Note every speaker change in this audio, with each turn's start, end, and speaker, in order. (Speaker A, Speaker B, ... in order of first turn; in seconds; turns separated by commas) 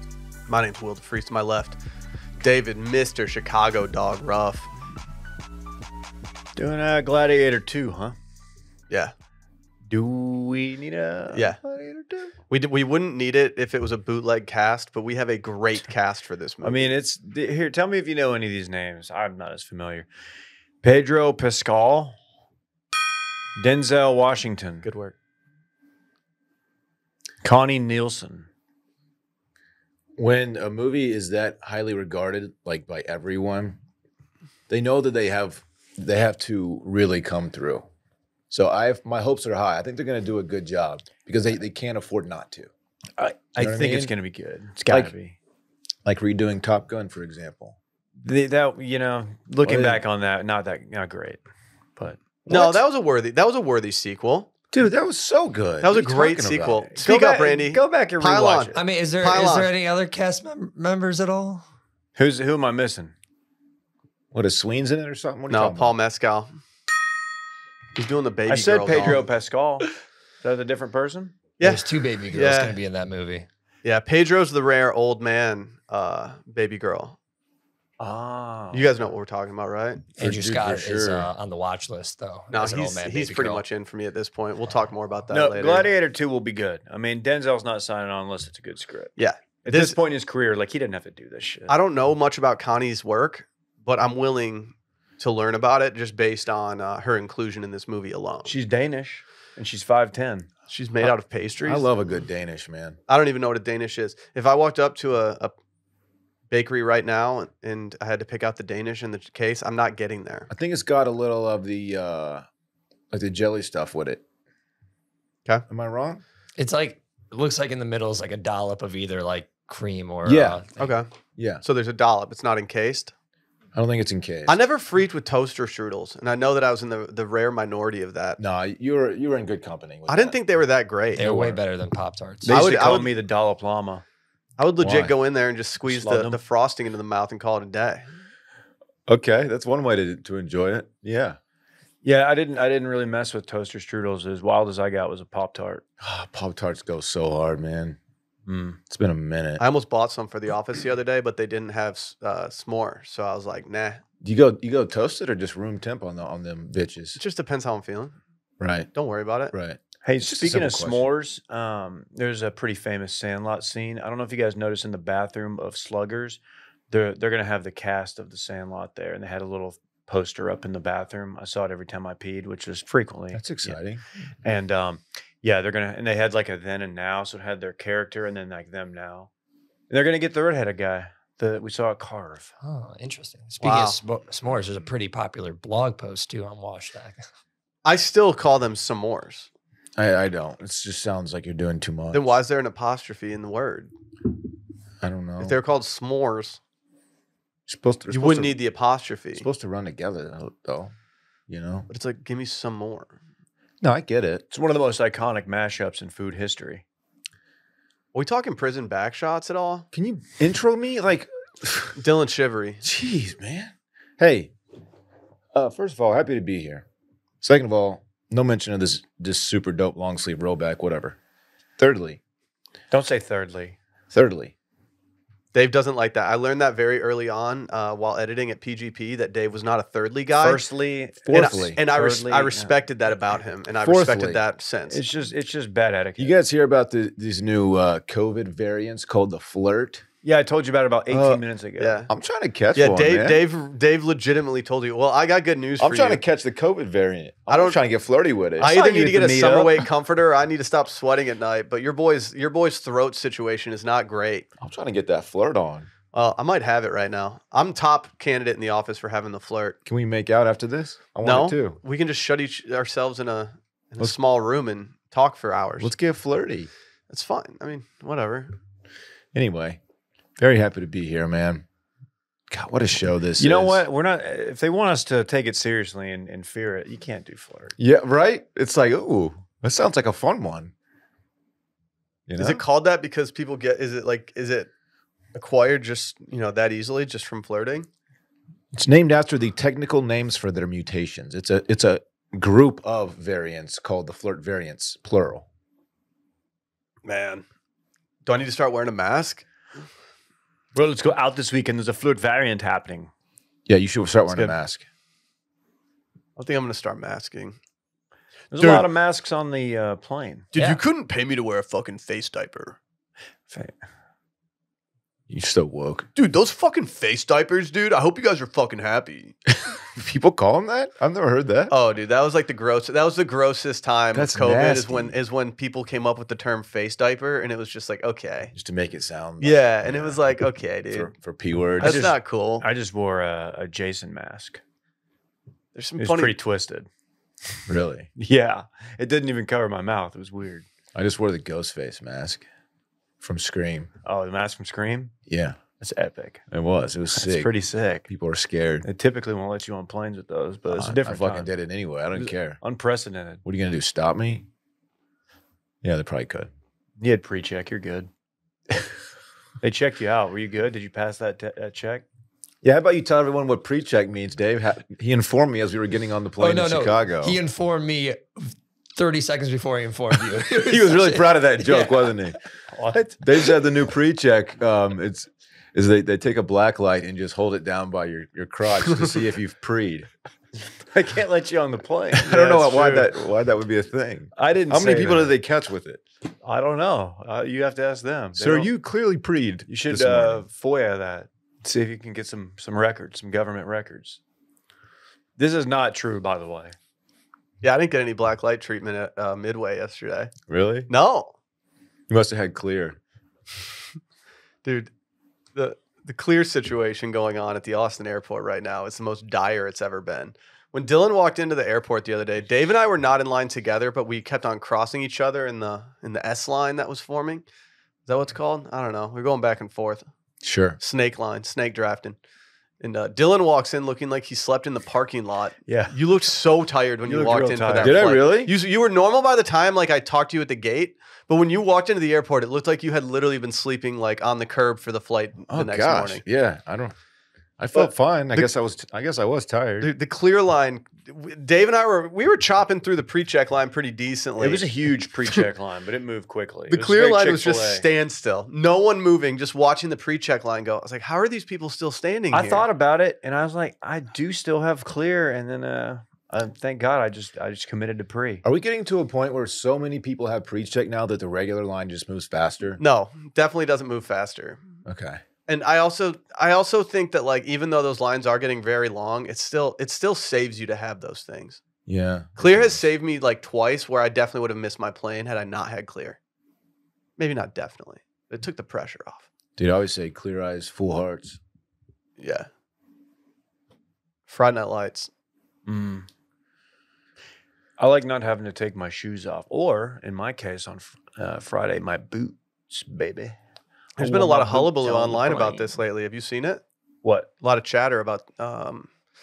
Speaker A: 0.5-1.8, Speaker A: 2.4-4.7, Speaker B: 6.5-8.2, Speaker B: 9.9-12.3, Speaker A: 11.3-11.6, Speaker A: 12.5-16.9, Speaker B: 16.6-20.1, Speaker B: 20.8-22.1, Speaker B: 23.6-24.9, Speaker A: 24.8-25.1, Speaker B: 27.4-28.5, Speaker C: 30.2-33.8, Speaker C: 34.7-37.9, Speaker C: 38.5-42.7, Speaker B: 43.2-45.4, Speaker C: 43.6-44.1, Speaker C: 46.0-47.8, Speaker B: 48.2-51.4, Speaker C: 49.6-50.0, Speaker B: 52.0-52.8, Speaker A: 52.5-54.5, Speaker C: 54.7-57.0, Speaker A: 55.8-59.7, Speaker B: 57.0-58.8, Speaker D: 58.7-61.6, Speaker B: 62.1-63.1, Speaker C: 64.3-65.9, Speaker A: 65.5-66.5, Speaker A: 67.9-69.2, Speaker B: 68.5-69.9, Speaker B: 70.4-71.4, Speaker A: 71.6-72.8, Speaker D: 71.6-73.5, Speaker A: 73.8-77.2, Speaker B: 78.0-78.9, Speaker A: 78.7-80.0, Speaker D: 80.2-83.6, Speaker C: 80.2-81.3, Speaker A: 82.5-85.9, Speaker B: 85.3-91.7, Speaker A: 89.2-90.0, Speaker A: 91.7-98.5, Speaker B: 98.4-100.5, Speaker A: 100.7-101.9, Speaker C: 101.6-103.0, Speaker A: 103.1-105.5, Speaker A: 106.5-110.5, Speaker C: 110.5-112.5, Speaker C: 113.1-114.2, Speaker C: 115.7-116.2, Speaker D: 116.5-120.7, Speaker C: 120.2-121.6, Speaker A: 120.8-121.1, Speaker A: 121.6-123.1, Speaker C: 123.7-124.6, Speaker A: 124.5-128.4, Speaker C: 128.4-130.3, Speaker A: 130.1-131.6, Speaker D: 131.1-132.5, Speaker B: 132.4-134.0, Speaker A: 132.5-133.1, Speaker A: 134.6-138.1, Speaker C: 134.8-135.1, Speaker B: 135.8-136.4, Speaker C: 139.1-141.4, Speaker B: 142.0-145.8, Speaker C: 146.0-148.0, Speaker B: 148.4-148.8, Speaker C: 148.9-149.6, Speaker A: 149.6-154.0, Speaker C: 154.2-157.2, Speaker A: 157.2-158.2, Speaker C: 158.6-158.9, Speaker A: 158.9-159.5, Speaker C: 159.5-161.1, Speaker B: 160.0-173.8, Speaker C: 173.3-174.0, Speaker B: 174.4-179.3, Speaker B: 179.9-182.5, Speaker D: 182.6-187.2, Speaker A: 183.6-184.0, Speaker A: 187.8-189.5, Speaker C: 190.0-192.3, Speaker A: 192.1-193.9, Speaker C: 195.0-195.6, Speaker A: 195.4-196.6, Speaker C: 197.7-198.6, Speaker A: 198.1-199.4, Speaker C: 199.3-200.9, Speaker C: 201.5-201.9, Speaker A: 201.9-203.2, Speaker C: 203.8-204.5, Speaker B: 204.5-206.8, Speaker A: 208.1-209.8, Speaker C: 209.9-212.0, Speaker A: 211.9-212.8, Speaker C: 212.8-214.5, Speaker C: 215.5-216.8, Speaker C: 217.4-221.2, Speaker C: 221.8-222.2, Speaker B: 222.9-223.8, Speaker C: 224.1-224.5, Speaker A: 225.5-230.6, Speaker B: 230.3-232.7, Speaker C: 231.2-231.8, Speaker A: 231.3-235.0, Speaker C: 233.8-234.4, Speaker B: 234.9-236.3, Speaker C: 236.2-240.0, Speaker B: 240.2-242.0, Speaker C: 241.1-241.4, Speaker A: 241.8-242.1, Speaker C: 242.1-243.4, Speaker A: 242.7-246.2, Speaker C: 245.8-248.7, Speaker A: 247.5-247.8, Speaker A: 248.6-254.5, Speaker B: 248.6-249.9, Speaker C: 254.6-255.9, Speaker A: 256.1-259.8, Speaker C: 259.8-261.8, Speaker A: 261.2-265.9, Speaker C: 265.8-266.7, Speaker A: 267.1-268.5, Speaker C: 269.3-269.8, Speaker C: 270.4-271.6, Speaker C: 272.5-273.8, Speaker B: 273.4-277.8, Speaker C: 277.8-280.7, Speaker C: 282.3-282.6, Speaker A: 282.4-284.7, Speaker A: 285.3-287.9, Speaker C: 288.7-295.4, Speaker A: 297.0-297.4, Speaker A: 298.2-299.4, Speaker B: 300.7-303.1, Speaker C: 303.6-304.8, Speaker A: 304.3-304.6, Speaker A: 306.4-307.6, Speaker B: 308.5-310.5, Speaker A: 308.6-308.9, Speaker A: 310.5-312.8, Speaker B: 313.5-313.7, Speaker C: 315.3-316.1, Speaker A: 316.1-319.4, Speaker C: 319.9-321.7, Speaker A: 321.7-328.5, Speaker C: 324.1-325.1, Speaker C: 328.5-330.4, Speaker A: 329.4-331.1, Speaker C: 330.9-332.1, Speaker A: 331.8-332.7, Speaker B: 331.8-334.6, Speaker A: 335.7-336.4, Speaker B: 336.0-336.9, Speaker C: 337.7-338.1, Speaker B: 338.2-340.6, Speaker C: 340.9-342.4, Speaker C: 343.2-343.9, Speaker B: 344.0-345.1, Speaker C: 345.3-345.6, Speaker B: 345.8-346.4, Speaker C: 346.5-347.5, Speaker B: 347.1-348.1, Speaker C: 348.1-348.9, Speaker B: 348.8-351.5, Speaker C: 350.7-352.6, Speaker B: 352.1-353.4, Speaker C: 353.4-354.4, Speaker C: 355.8-356.5, Speaker B: 357.0-358.1, Speaker B: 359.6-362.0, Speaker C: 362.6-367.4, Speaker D: 366.4-372.3, Speaker C: 370.5-372.4, Speaker B: 372.7-373.2, Speaker C: 373.2-380.1, Speaker B: 380.9-383.2, Speaker C: 382.1-386.0, Speaker B: 384.4-385.4, Speaker B: 386.4-388.7, Speaker C: 388.4-390.4, Speaker B: 389.7-394.2, Speaker B: 395.4-396.7, Speaker A: 397.6-400.3, Speaker C: 400.5-400.9, Speaker A: 400.9-401.3, Speaker C: 402.1-403.0, Speaker A: 404.6-404.9, Speaker A: 405.5-417.4, Speaker A: 418.1-420.1, Speaker C: 420.4-420.8, Speaker A: 420.8-422.2, Speaker A: 422.8-436.2, Speaker B: 425.7-425.9, Speaker B: 427.1-428.1, Speaker C: 427.8-428.5, Speaker C: 435.5-436.9, Speaker C: 437.6-439.9, Speaker B: 437.8-438.4, Speaker A: 439.8-444.6, Speaker B: 444.4-447.8, Speaker A: 446.7-452.6, Speaker B: 452.3-458.4, Speaker C: 458.4-462.8, Speaker A: 462.8-464.6, Speaker C: 464.8-465.2, Speaker A: 465.5-471.6, Speaker C: 471.9-472.8, Speaker A: 472.4-476.2, Speaker A: 477.2-479.3, Speaker C: 479.6-481.4, Speaker A: 482.2-482.5, Speaker A: 484.3-485.1, Speaker B: 485.6-486.1, Speaker B: 487.8-493.4, Speaker A: 494.0-496.6, Speaker B: 494.0-495.5, Speaker B: 497.0-497.3, Speaker A: 497.4-498.9